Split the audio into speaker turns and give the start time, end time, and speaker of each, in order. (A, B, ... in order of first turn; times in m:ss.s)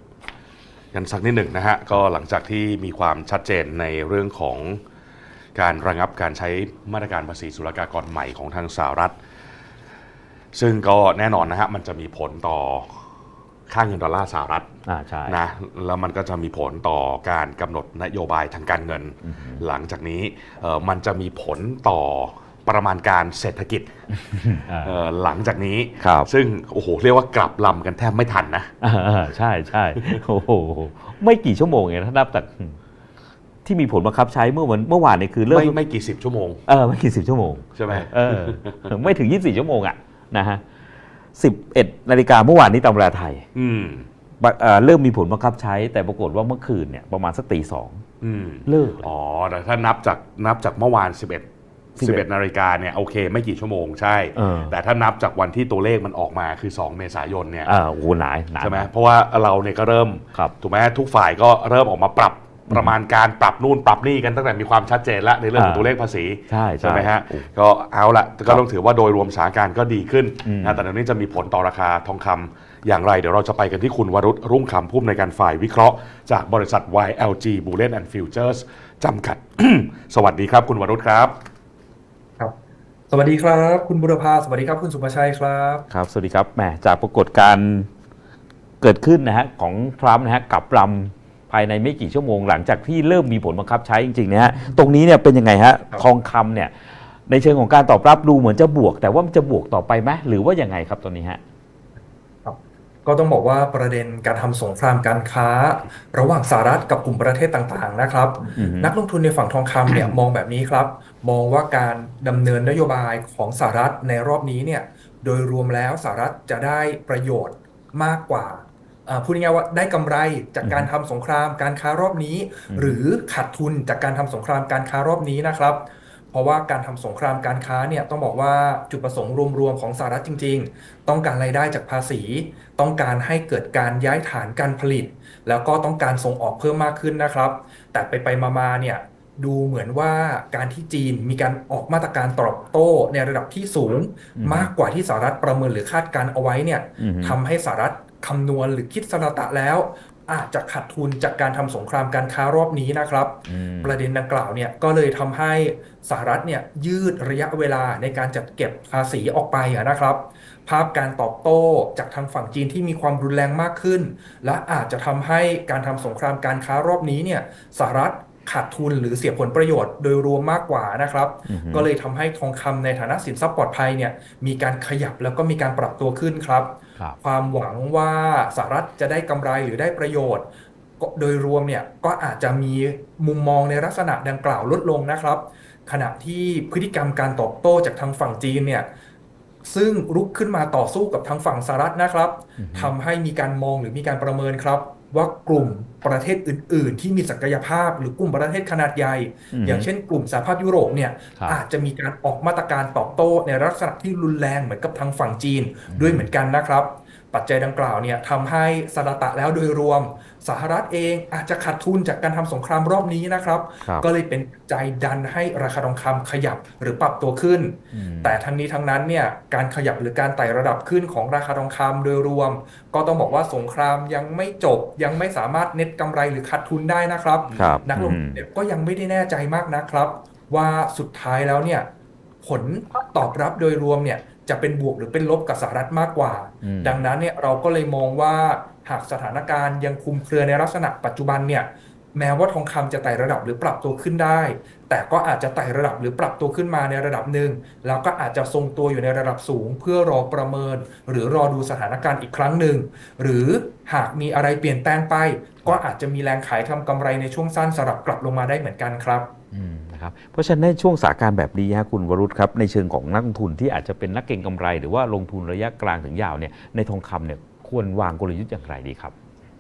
0:00.9-0:04.8 A
0:05.6-0:09.2 A
0:10.5-0:13.0 A
0:13.7-0:14.7 A
0:14.9-0:15.4 B
0:15.3-0:24.0 A
0:19.2-0:19.6 B
0:24.2-0:25.0 B
0:24.8-0:28.7 A
0:26.0-0:26.3 B
0:28.8-0:32.8 B
0:33.6-0:35.8 B
0:35.5-0:36.6 A
0:36.7-0:40.6 B
0:37.8-0:39.0 A
0:41.4-0:43.5 B
0:43.6-0:44.1 A
0:44.4-0:48.0 B
0:48.2-0:51.5 A
0:48.7-0:49.1 B
0:52.0-0:52.2 B
0:52.0-0:57.7 A
0:54.4-0:54.8 B
0:57.6-0:58.9 B
0:58.6-1:21.4 A
1:02.7-1:02.9 B
1:05.5-1:05.9 B
1:06.5-1:07.5 B
1:10.4-1:10.8 B
1:23.1-1:25.9 C
1:25.9-1:27.9 B
1:28.8-1:36.7 B
1:37.3-1:41.4 B
1:42.4-3:00.5 C
1:48.6-1:49.0 B
2:00.6-2:00.9 B
2:02.7-2:03.0 B
2:24.4-2:24.7 B
2:27.0-2:27.4 B
2:33.5-2:34.0 B
2:51.5-2:51.9 B
3:01.0-3:08.9 C
3:09.6-3:51.9 C
3:12.6-3:13.0 B
3:19.5-3:19.9 B
3:25.9-3:26.3 B
3:37.9-3:38.4 B
3:47.5-3:47.8 A
3:47.6-3:48.4 B
3:52.4-4:19.3 C
3:56.6-3:57.0 B
4:19.5-4:29.1 B